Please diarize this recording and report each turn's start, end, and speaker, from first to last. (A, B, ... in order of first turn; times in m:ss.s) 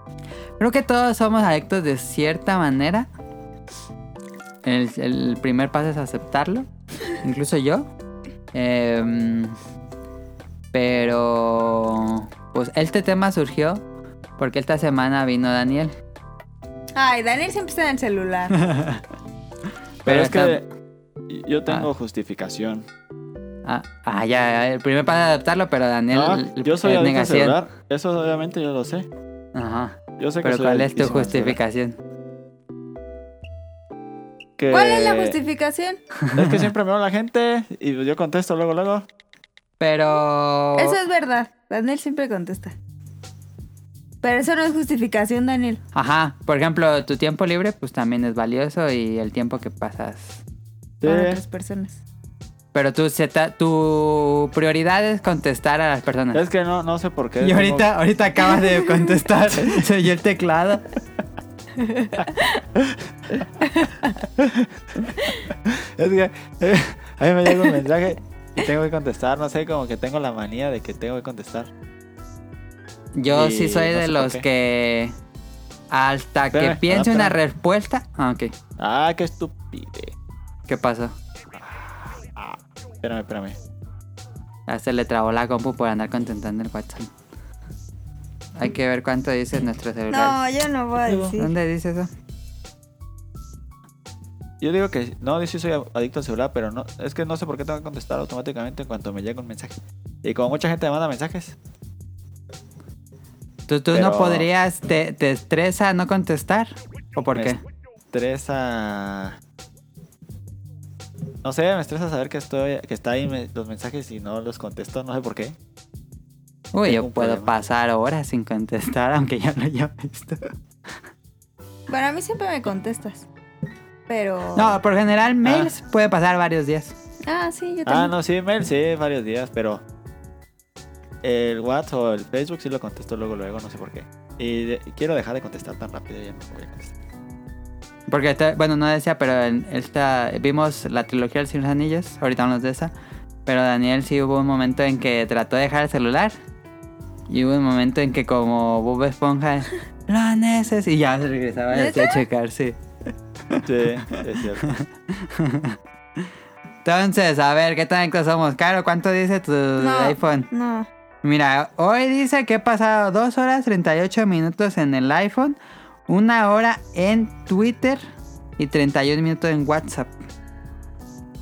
0:00.6-0:03.1 A
0:04.6-0:07.9 A
0:08.5-0:09.6 A
0:10.7-0:13.8 A
0:14.4-0:15.9 A
0:17.0-0:18.6 B
0:18.6-0:19.0 A
0:20.0-0:20.6 A
0:20.0-0:20.6 C
0:21.3-0:22.9 C
0:23.6-0:27.6 A
0:26.1-0:29.1 C
0:29.5-0:32.0 A
0:30.2-0:31.6 C
0:34.6-0:35.4 C
0:34.7-0:36.0 B
0:36.3-0:39.1 C
0:39.8-0:41.0 A
0:40.8-0:42.7 B
0:44.2-0:45.8 B
0:45.9-0:50.4 A
0:51.0-0:51.4 C
0:51.0-0:52.0 B
0:52.7-0:56.4 A
0:56.3-0:57.9 C
0:57.4-1:00.9 A
1:01.8-1:02.6 B
1:02.9-1:03.4 C
1:04.4-1:11.7 C
1:13.1-1:15.1 A
1:13.3-1:14.4 C
1:15.9-1:18.5 A
1:16.5-1:17.4 C
1:18.8-1:20.1 C
1:20.7-1:21.1 A
1:22.2-1:23.6 C
1:24.7-1:27.1 A
1:28.6-1:30.4 A
1:30.1-1:31.5 B
1:31.0-1:31.3 C
1:31.2-1:32.1 A
1:34.6-1:41.6 C
1:43.7-1:47.6 A
1:43.9-1:44.5 C
1:48.1-1:49.4 C
1:51.4-1:55.6 C
1:56.7-2:00.5 A
1:56.8-1:57.5 C
2:01.9-2:03.3 B
2:04.1-2:04.8 B
2:04.6-2:06.9 A
2:05.4-2:05.7 C
2:07.2-2:08.1 B
2:07.8-2:09.8 C
2:11.2-2:17.0 C
2:18.1-2:22.9 A
2:23.4-2:26.3 A
2:27.3-2:32.8 A
2:31.7-2:32.2 B
2:33.6-2:34.7 C
2:34.6-2:35.8 A
2:36.8-2:40.5 A
2:39.8-2:40.9 B
2:41.2-2:48.0 A
2:48.6-2:50.1 A